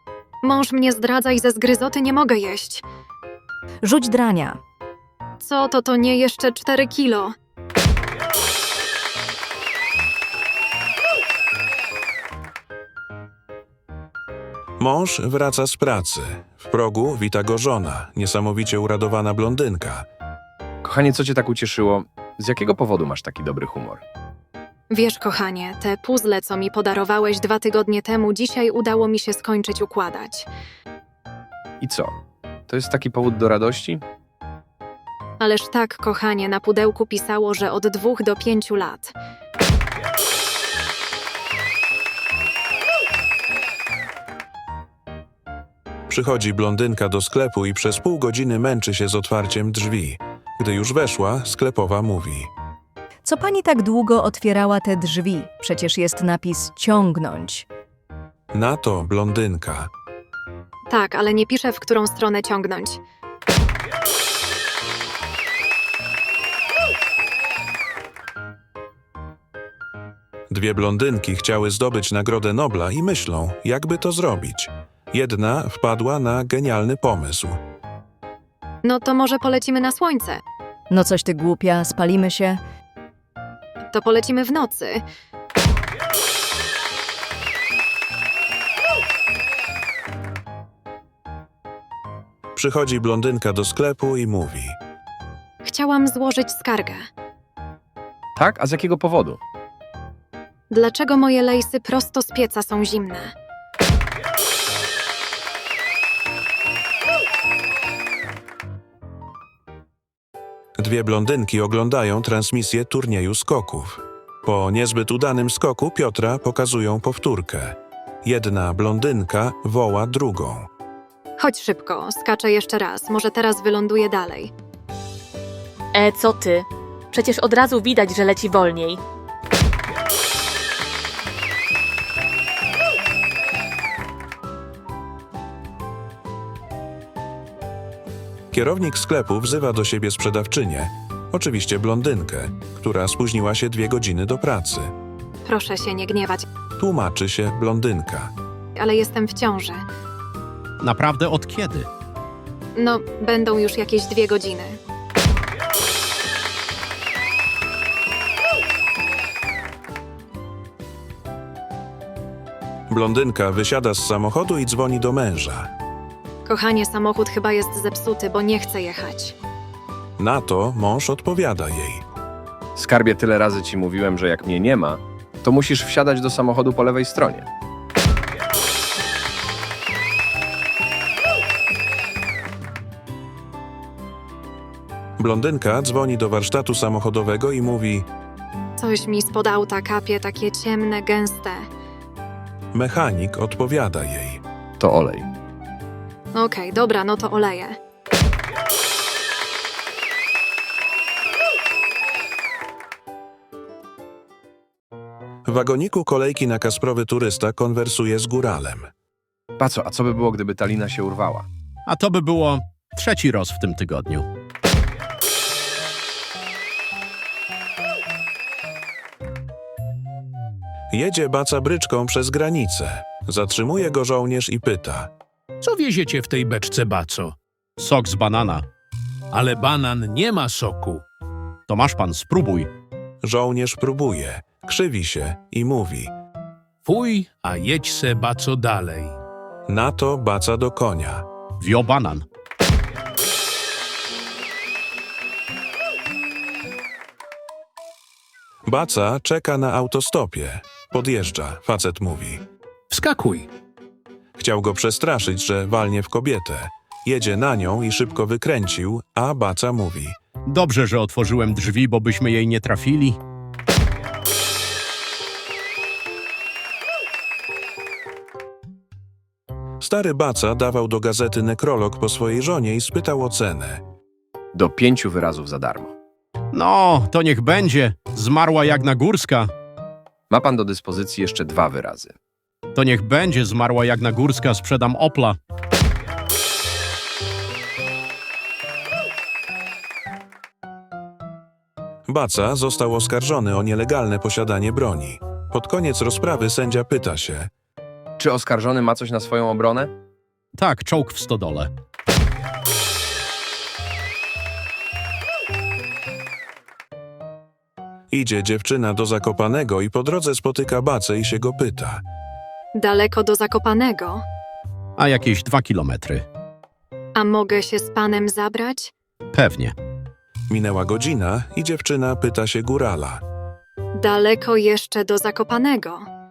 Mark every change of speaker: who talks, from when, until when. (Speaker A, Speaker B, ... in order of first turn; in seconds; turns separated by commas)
Speaker A: 0.4-2.8, Speaker B: 3.8-4.6, Speaker A: 5.4-7.3, Speaker C: 14.8-20.1, Speaker D: 20.8-24.0, Speaker A: 24.9-30.5, Speaker D: 31.8-32.1, Speaker D: 32.7-34.0, Speaker A: 35.4-39.1, Speaker C: 46.1-52.5, Speaker B: 53.2-57.7, Speaker C: 58.5-59.9, Speaker A: 60.9-63.0, Speaker C: 70.5-77.6, Speaker A: 78.8-80.4, Speaker B: 80.9-82.6, Speaker A: 83.9-85.0, Speaker C: 92.5-94.8, Speaker A: 95.7-97.0, Speaker D: 98.4-99.4, Speaker A: 100.7-103.3, Speaker C: 110.8-120.7, Speaker A: 121.4-124.5, Speaker E: 125.9-129.0, Speaker C: 138.5-144.9, Speaker A: 145.4-146.4, Speaker C: 146.8-148.3, Speaker A: 148.8-149.8, Speaker F: 150.8-151.9, Speaker A: 152.8-154.8, Speaker C: 162.9-165.7, Speaker A: 166.4-169.3, Speaker C: 170.2-172.0, Speaker D: 172.8-177.5, Speaker C: 185.2-188.1, Speaker A: 188.8-191.7, Speaker C: 192.7-194.4, Speaker D: 194.8-195.3, Speaker A: 196.3-197.8, Speaker C: 205.5-208.9, Speaker D: 209.6-211.5, Speaker F: 211.9-214.3, Speaker C: 220.9-225.1, Speaker G: 225.6-227.4, Speaker F: 227.8-228.7, Speaker G: 229.3-231.0, Speaker F: 231.7-232.7, Speaker C: 233.2-236.1, Speaker G: 236.8-239.2, Speaker C: 239.7-241.2, Speaker F: 241.6-242.3, Speaker C: 248.7-252.4, Speaker G: 252.9-253.5, Speaker C: 254.4-260.2, Speaker F: 260.5-263.2, Speaker C: 269.8-273.8, Speaker D: 274.6-275.9, Speaker F: 276.5-279.5, Speaker D: 280.3-282.1, Speaker F: 282.8-285.4, Speaker C: 292.1-297.5, Speaker D: 298.2-299.9, Speaker F: 300.6-301.7, Speaker C: 308.1-312.0, Speaker A: 312.8-314.2, Speaker F: 315.0-316.2, Speaker A: 317.2-318.9, Speaker F: 319.3-319.7, Speaker C: 320.5-323.2, Speaker A: 324.0-326.1